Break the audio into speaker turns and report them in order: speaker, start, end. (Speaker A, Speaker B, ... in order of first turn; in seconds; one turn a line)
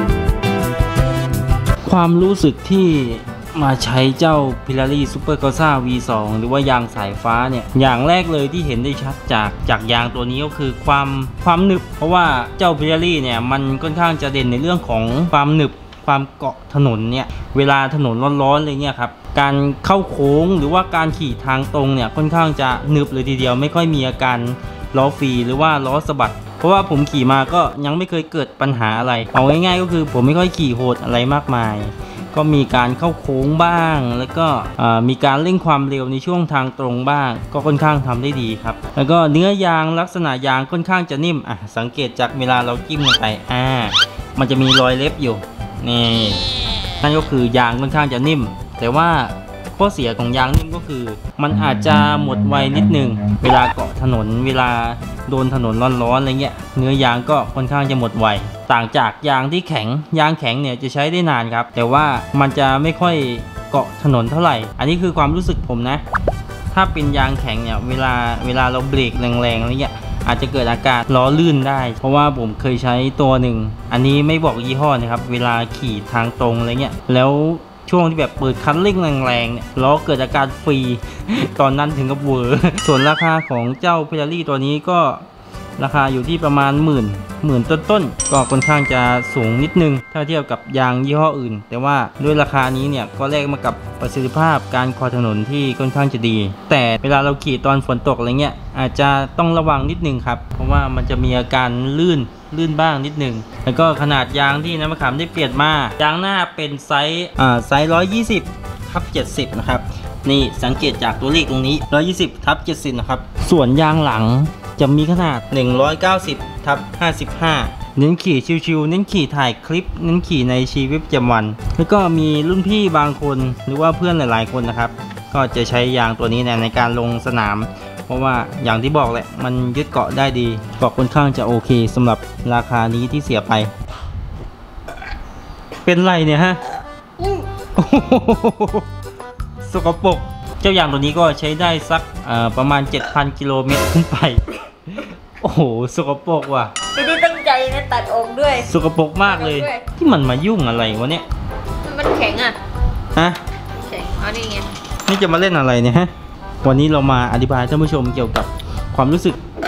Speaker A: 1.8-46.4
Speaker A: 47.0-66.0
Speaker A: 66.7-85.2
Speaker A: 85.8-133.7
Speaker A: 135.8-136.6
Speaker B: 137.2-137.4
Speaker A: 137.8-138.8
Speaker A: 139.6-146.7
Speaker B: 146.9-148.7
Speaker A: 148.6-151.2
Speaker B: 149.2-149.9
Speaker B: 151.8-152.6
Speaker B: 153.7-154.7
Speaker A: 155.1-156.1
Speaker A: 156.6-159.4